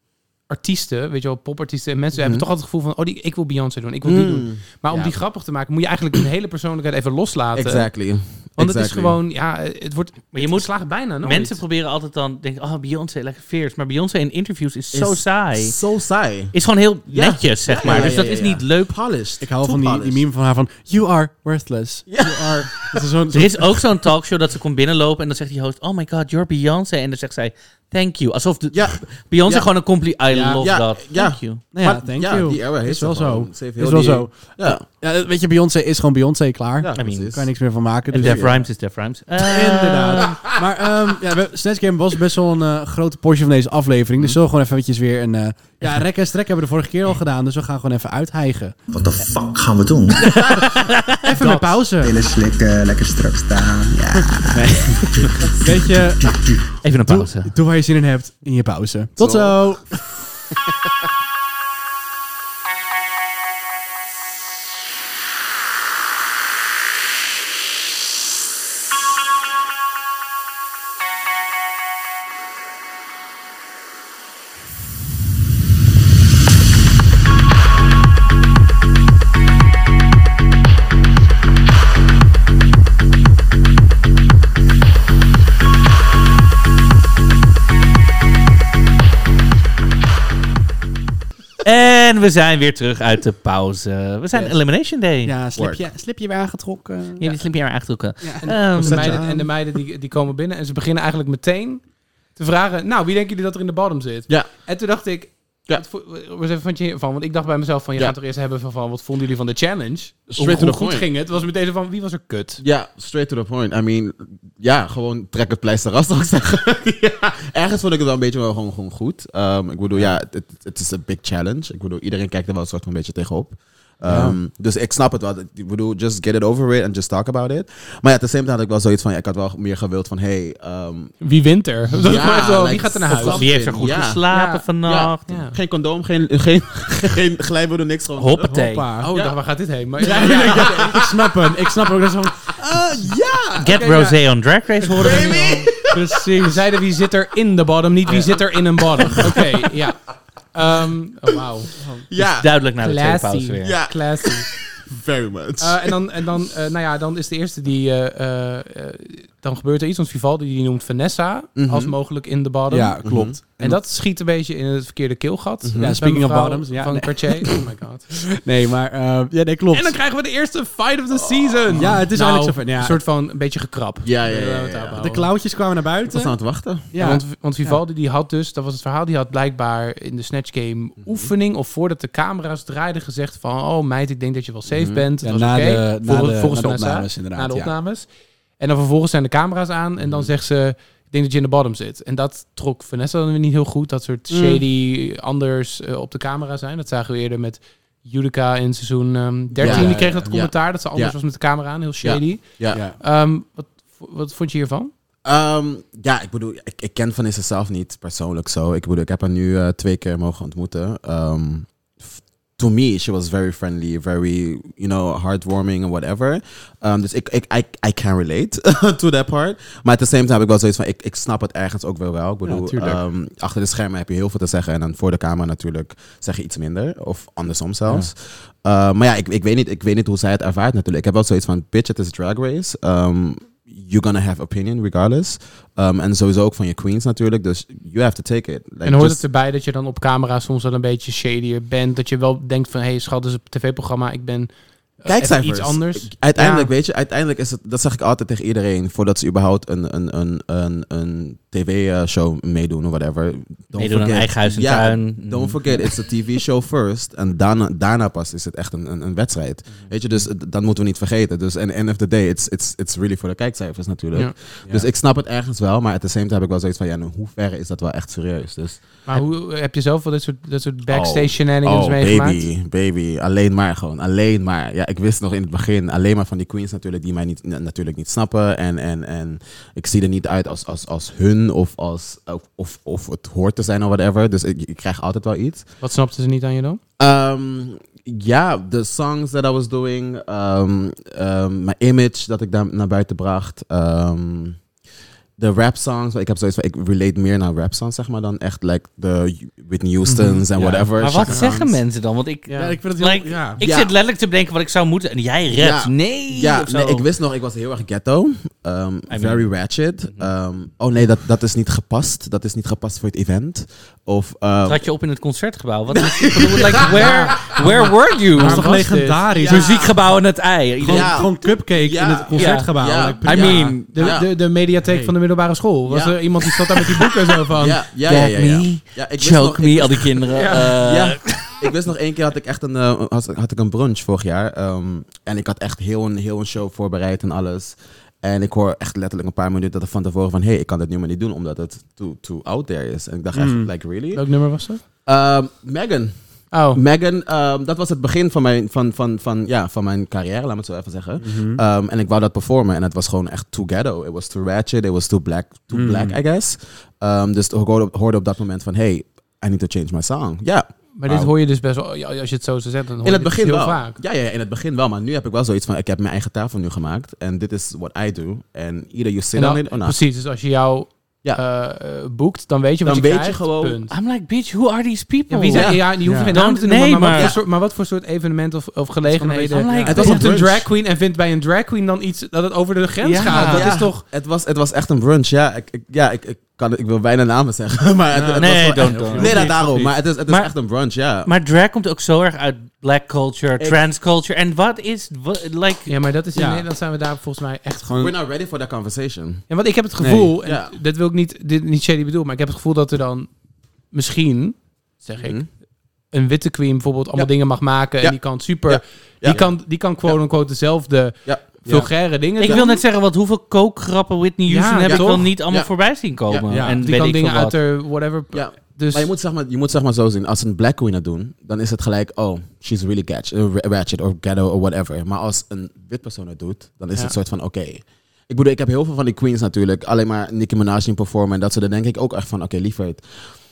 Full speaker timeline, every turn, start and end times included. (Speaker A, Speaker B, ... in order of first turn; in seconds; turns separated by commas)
Speaker A: 0.5-7.9, Speaker B: 2.1-2.5, Speaker B: 4.0-5.2, Speaker B: 7.5-9.2, Speaker A: 8.6-11.6, Speaker C: 10.3-15.8, Speaker B: 14.9-16.6, Speaker C: 16.5-18.9, Speaker B: 17.1-20.2, Speaker D: 17.8-18.2, Speaker D: 19.4-23.7, Speaker B: 22.1-23.0, Speaker C: 23.3-31.6, Speaker B: 28.7-29.7, Speaker D: 30.3-30.6, Speaker B: 30.4-34.8, Speaker D: 31.7-38.6, Speaker B: 36.8-37.5, Speaker C: 36.9-37.3, Speaker B: 38.1-38.6, Speaker C: 38.1-40.4, Speaker D: 39.4-48.8, Speaker E: 48.9-50.4, Speaker D: 50.2-52.1, Speaker C: 50.3-51.1, Speaker E: 51.4-55.4, Speaker D: 54.5-56.3, Speaker E: 56.2-56.7, Speaker C: 56.8-57.5, Speaker D: 57.0-59.9, Speaker B: 59.2-60.0, Speaker C: 91.6-95.3, Speaker D: 95.2-97.4, Speaker B: 95.5-95.8, Speaker C: 97.2-99.1, Speaker A: 98.4-101.8, Speaker B: 98.7-99.5, Speaker A: 102.3-112.6, Speaker B: 110.3-111.1, Speaker B: 112.6-131.1, Speaker D: 124.0-124.4, Speaker A: 131.2-133.4, Speaker B: 131.9-134.2, Speaker C: 133.1-135.3, Speaker A: 134.3-134.6, Speaker B: 134.8-139.3, Speaker A: 135.3-135.5, Speaker C: 138.2-138.9, Speaker D: 138.4-139.2, Speaker A: 139.0-140.9, Speaker B: 140.0-141.6, Speaker D: 140.0-144.1, Speaker C: 143.6-145.7, Speaker B: 144.9-146.1, Speaker D: 145.8-146.6, Speaker A: 146.4-150.0, Speaker B: 149.0-149.4, Speaker A: 150.5-151.7, Speaker D: 151.8-152.1, Speaker B: 152.1-152.5, Speaker C: 152.2-153.8, Speaker A: 152.8-154.5, Speaker B: 153.6-155.9, Speaker A: 155.6-168.1, Speaker B: 161.6-161.9, Speaker D: 162.7-163.8, Speaker B: 163.0-163.4, Speaker B: 165.6-166.0, Speaker D: 165.8-167.6, Speaker D: 168.4-170.0, Speaker A: 169.7-175.2, Speaker B: 171.1-172.0, Speaker D: 171.7-173.0, Speaker B: 174.0-175.1, Speaker D: 175.0-177.8, Speaker B: 176.1-176.8, Speaker A: 176.9-204.9, Speaker B: 181.0-181.3, Speaker B: 184.7-185.0, Speaker D: 185.2-187.7, Speaker B: 190.0-190.3, Speaker B: 194.3-194.6, Speaker B: 199.5-201.2, Speaker D: 199.6-200.2, Speaker B: 202.0-202.8, Speaker D: 202.7-203.0, Speaker B: 205.2-239.2, Speaker D: 222.4-223.0, Speaker A: 238.8-244.5, Speaker A: 245.0-246.7, Speaker B: 245.1-268.9, Speaker C: 253.8-255.6, Speaker A: 269.1-272.4, Speaker B: 270.9-285.6, Speaker A: 285.8-286.8, Speaker B: 287.0-294.6, Speaker B: 295.4-301.8, Speaker D: 300.1-301.4, Speaker C: 301.0-307.0, Speaker D: 302.5-303.6, Speaker B: 303.6-303.9, Speaker B: 305.5-314.8, Speaker C: 309.1-309.4, Speaker C: 314.6-318.7, Speaker B: 315.9-317.5, Speaker A: 316.9-317.6, Speaker A: 318.4-319.3, Speaker D: 318.4-319.9, Speaker B: 319.3-320.0, Speaker C: 319.4-321.4, Speaker D: 320.8-324.1, Speaker B: 320.8-324.3, Speaker C: 322.3-322.7, Speaker C: 323.2-323.9, Speaker A: 323.2-327.8, Speaker D: 324.8-325.1, Speaker B: 325.9-326.9, Speaker B: 327.5-344.2, Speaker C: 328.1-331.5, Speaker A: 330.3-330.7, Speaker D: 343.3-343.7, Speaker A: 344.1-344.8, Speaker B: 345.1-346.1, Speaker A: 346.5-346.8, Speaker B: 346.7-361.3, Speaker D: 351.2-351.6, Speaker D: 355.7-356.1, Speaker A: 361.0-364.0, Speaker B: 363.0-370.0, Speaker A: 369.3-373.9, Speaker B: 372.8-373.8, Speaker C: 373.9-377.4, Speaker A: 375.3-384.0, Speaker B: 375.5-375.9, Speaker D: 376.1-376.3, Speaker B: 377.1-377.4, Speaker D: 379.2-380.2, Speaker C: 379.2-380.3, Speaker B: 379.8-380.7, Speaker C: 383.0-383.7, Speaker B: 383.2-391.3, Speaker D: 388.1-389.9, Speaker C: 388.4-389.6, Speaker C: 390.3-390.5, Speaker C: 391.2-395.9, Speaker B: 393.6-393.8, Speaker A: 395.9-397.9, Speaker D: 396.3-396.6, Speaker D: 397.8-398.1, Speaker B: 398.0-399.4, Speaker A: 399.5-403.3, Speaker D: 400.0-400.3, Speaker B: 400.4-400.7, Speaker A: 403.9-405.4, Speaker B: 405.2-405.5, Speaker A: 406.1-412.8, Speaker B: 408.0-409.5, Speaker B: 411.2-412.8, Speaker C: 412.4-417.5, Speaker A: 414.5-415.3, Speaker B: 414.9-416.6, Speaker D: 416.5-416.8, Speaker A: 416.8-419.1, Speaker B: 418.3-433.3